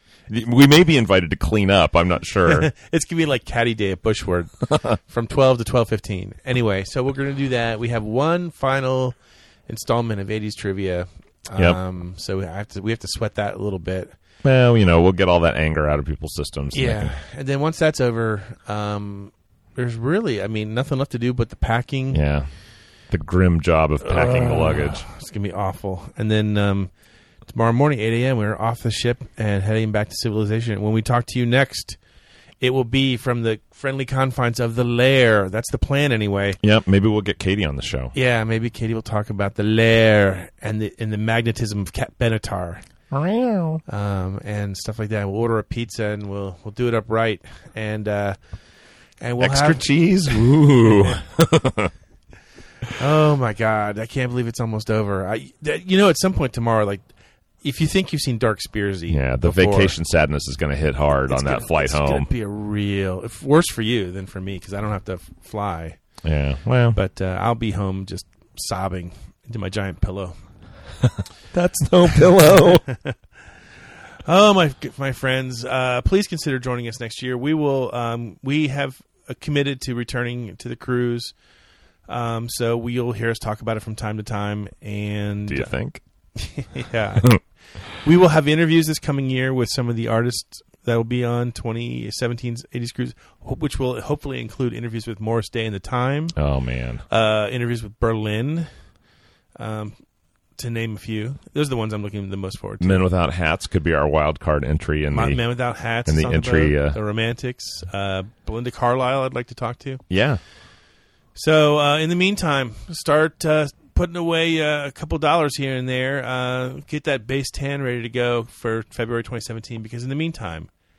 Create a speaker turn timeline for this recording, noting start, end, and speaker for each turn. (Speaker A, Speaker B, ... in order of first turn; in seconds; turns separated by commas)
Speaker A: 0.3-2.7, Speaker B: 2.5-9.2, Speaker B: 9.7-14.1, Speaker A: 14.4-17.1, Speaker B: 16.7-22.2, Speaker A: 22.1-22.5, Speaker A: 23.1-25.0, Speaker B: 24.0-26.9, Speaker B: 27.5-32.0, Speaker B: 32.6-36.6, Speaker A: 36.6-38.1, Speaker B: 38.1-42.8, Speaker A: 43.1-43.8, Speaker B: 43.9-48.4, Speaker B: 49.2-51.2, Speaker A: 49.4-51.9, Speaker B: 53.0-57.0, Speaker B: 57.6-60.0, Speaker A: 59.1-62.3, Speaker B: 61.3-66.0, Speaker A: 66.2-67.0, Speaker B: 66.9-70.4, Speaker A: 71.2-72.8, Speaker B: 72.4-73.2, Speaker B: 74.2-81.3, Speaker B: 82.1-85.7, Speaker A: 85.5-86.0, Speaker B: 86.4-87.4, Speaker B: 87.9-96.3, Speaker A: 96.3-97.0, Speaker B: 97.1-98.7, Speaker B: 99.6-100.0, Speaker B: 100.6-103.1, Speaker A: 102.8-105.4, Speaker B: 105.1-110.0, Speaker A: 106.0-107.0, Speaker A: 110.1-110.4, Speaker B: 111.3-120.7